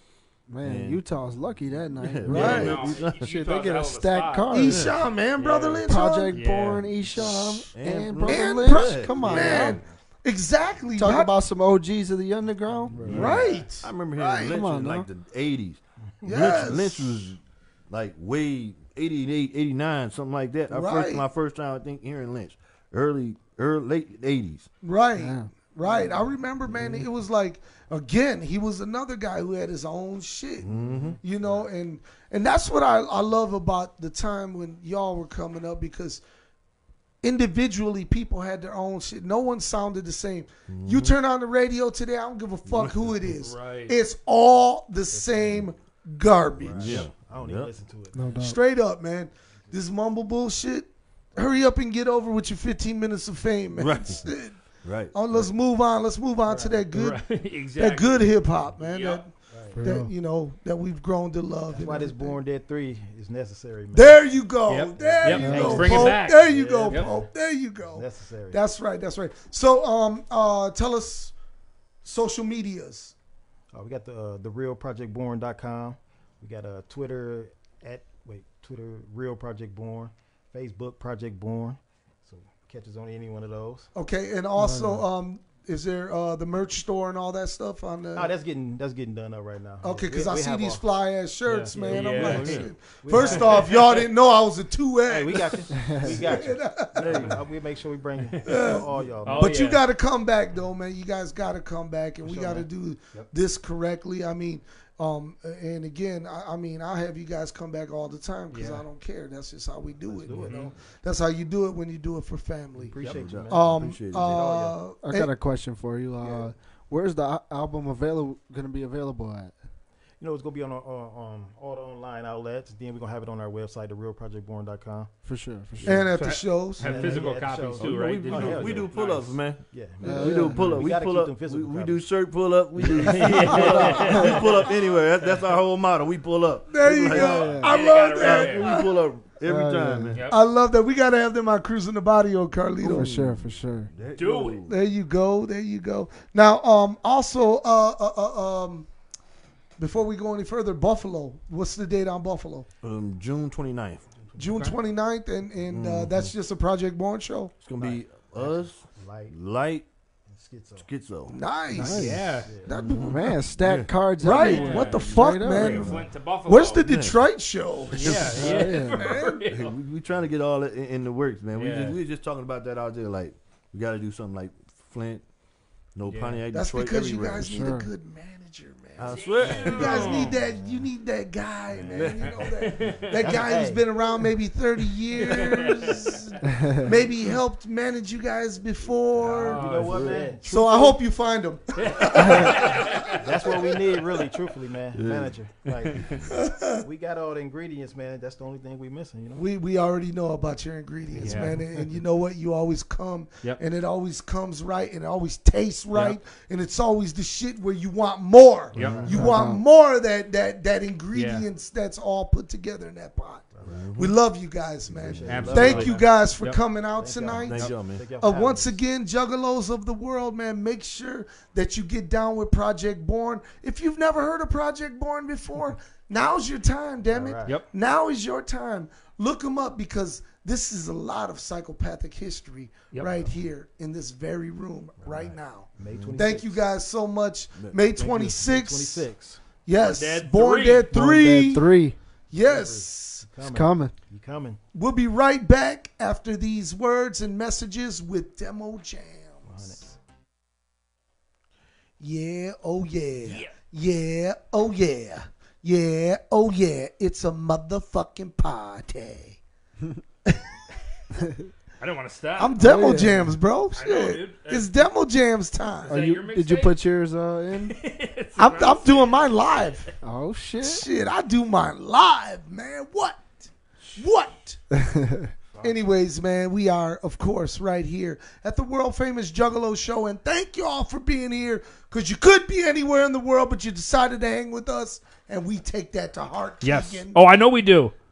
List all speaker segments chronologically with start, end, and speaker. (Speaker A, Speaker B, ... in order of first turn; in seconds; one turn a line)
Speaker A: 0.5-5.0
Speaker B: 0.6-1.0
Speaker B: 2.0-3.2
Speaker C: 2.3-2.8
Speaker D: 2.3-4.8
Speaker C: 4.5-6.4
Speaker B: 4.7-5.0
Speaker D: 5.4-5.8
Speaker A: 5.9-9.8
Speaker D: 6.3-6.9
Speaker C: 7.2-11.3
Speaker B: 7.7-9.8
Speaker A: 11.0-13.4
Speaker B: 12.9-24.7
Speaker C: 13.1-14.6
Speaker D: 13.3-13.6
Speaker A: 14.4-15.1
Speaker C: 16.2-17.3
Speaker E: 16.3-16.6
Speaker C: 20.7-21.2
Speaker C: 24.8-30.7
Speaker A: 25.2-25.5
Speaker E: 25.8-26.3
Speaker B: 30.6-31.2
Speaker E: 30.8-31.7
Speaker C: 31.2-36.2
Speaker C: 37.2-47.1
Speaker B: 40.7-41.1
Speaker B: 42.7-43.2
Speaker D: 43.4-44.0
Speaker E: 45.1-45.7
Speaker E: 46.6-48.3
Speaker B: 46.7-47.7
Speaker A: 48.1-48.6
Speaker C: 48.4-54.6
Speaker B: 53.8-55.5
Speaker C: 55.1-57.2
Speaker E: 56.5-56.9
Speaker D: 56.9-59.2
Speaker C: 57.8-62.4
Speaker E: 59.5-59.8
Speaker A: 59.7-60.1
Speaker E: 61.7-64.4
Speaker C: 63.9-71.3
Speaker D: 64.7-67.1
Speaker E: 65.0-68.6
Speaker A: 65.4-65.9
Speaker C: 72.0-73.1
Speaker E: 73.7-83.9
Speaker C: 84.0-88.3
Speaker A: 84.6-85.0
Speaker E: 88.2-90.8
Speaker C: 89.8-97.3
Speaker E: 91.5-94.0
Speaker B: 91.9-92.7
Speaker D: 91.9-94.0
Speaker E: 95.1-99.6
Speaker A: 95.8-96.1
Speaker B: 97.0-97.5
Speaker D: 98.3-98.7
Speaker C: 98.5-115.3
Speaker D: 99.2-99.8
Speaker E: 102.2-102.7
Speaker D: 108.5-108.8
Speaker E: 110.1-110.8
Speaker D: 110.4-110.7
Speaker E: 112.9-114.8
Speaker B: 113.0-114.5
Speaker A: 115.0-119.5
Speaker E: 120.2-125.1
Speaker A: 125.2-126.1
Speaker C: 125.8-126.9
Speaker D: 126.2-129.3
Speaker E: 126.8-132.2
Speaker B: 127.0-140.3
Speaker A: 130.0-130.9
Speaker E: 132.8-134.4
Speaker D: 133.0-134.5
Speaker A: 133.8-134.2
Speaker C: 136.7-138.9
Speaker A: 137.1-137.7
Speaker D: 137.6-138.9
Speaker A: 139.4-140.2
Speaker C: 140.3-143.1
Speaker A: 142.8-143.9
Speaker B: 142.9-144.7
Speaker D: 144.2-144.6
Speaker C: 144.7-148.9
Speaker C: 149.8-152.7
Speaker B: 152.8-154.1
Speaker C: 154.4-157.5
Speaker D: 154.4-154.7
Speaker B: 155.7-156.3
Speaker B: 157.6-159.9
Speaker E: 157.8-159.4
Speaker E: 160.3-160.9
Speaker B: 160.8-161.4
Speaker C: 161.3-163.2
Speaker A: 161.7-162.3
Speaker D: 161.9-162.5
Speaker E: 162.4-162.8
Speaker B: 162.8-163.9
Speaker A: 162.9-166.0
Speaker C: 164.2-169.4
Speaker D: 164.2-166.8
Speaker B: 166.8-167.2
Speaker D: 167.9-169.8
Speaker B: 167.9-168.7
Speaker A: 168.3-169.1
Speaker B: 169.5-175.2
Speaker D: 171.6-172.0
Speaker B: 176.0-177.7
Speaker D: 176.1-176.4
Speaker C: 176.5-189.7
Speaker A: 177.4-177.9
Speaker B: 179.0-180.3
Speaker D: 179.1-180.4
Speaker D: 181.9-183.2
Speaker B: 181.9-182.4
Speaker E: 183.1-183.9
Speaker D: 185.2-186.3
Speaker A: 186.5-186.9
Speaker D: 189.2-190.2
Speaker E: 189.3-191.0
Speaker B: 189.4-190.5
Speaker C: 190.4-193.2
Speaker D: 191.8-193.2
Speaker A: 192.2-192.6
Speaker E: 192.5-196.1
Speaker B: 194.9-195.4
Speaker C: 196.3-196.8
Speaker E: 196.7-199.4
Speaker C: 199.3-213.4
Speaker D: 201.2-201.6
Speaker D: 208.7-209.1
Speaker E: 208.8-209.2
Speaker A: 209.1-209.6
Speaker D: 211.1-211.5
Speaker E: 213.5-213.8
Speaker B: 213.6-214.2
Speaker C: 214.0-239.1
Speaker B: 214.9-216.0
Speaker E: 214.9-216.1
Speaker D: 215.3-216.6
Speaker E: 217.0-218.8
Speaker B: 217.4-218.1
Speaker E: 227.1-227.6
Speaker D: 232.9-233.3
Speaker E: 235.0-236.6
Speaker B: 235.9-236.2
Speaker B: 237.6-238.3
Speaker E: 238.0-239.4
Speaker C: 239.7-241.7
Speaker D: 239.8-240.9
Speaker A: 240.9-242.0
Speaker C: 242.3-243.3
Speaker E: 242.4-244.6
Speaker A: 243.5-243.9
Speaker C: 244.8-249.8
Speaker E: 249.4-249.9
Speaker C: 252.0-259.4
Speaker D: 253.2-253.5
Speaker D: 261.8-262.6
Speaker C: 262.4-266.0
Speaker A: 262.6-263.4
Speaker D: 263.8-264.8
Speaker D: 265.9-266.8
Speaker A: 265.9-267.8
Speaker D: 267.7-269.8
Speaker C: 268.4-269.9
Speaker A: 270.0-270.9
Speaker C: 270.6-274.6
Speaker A: 274.8-275.3
Speaker C: 275.6-287.2
Speaker D: 286.6-287.9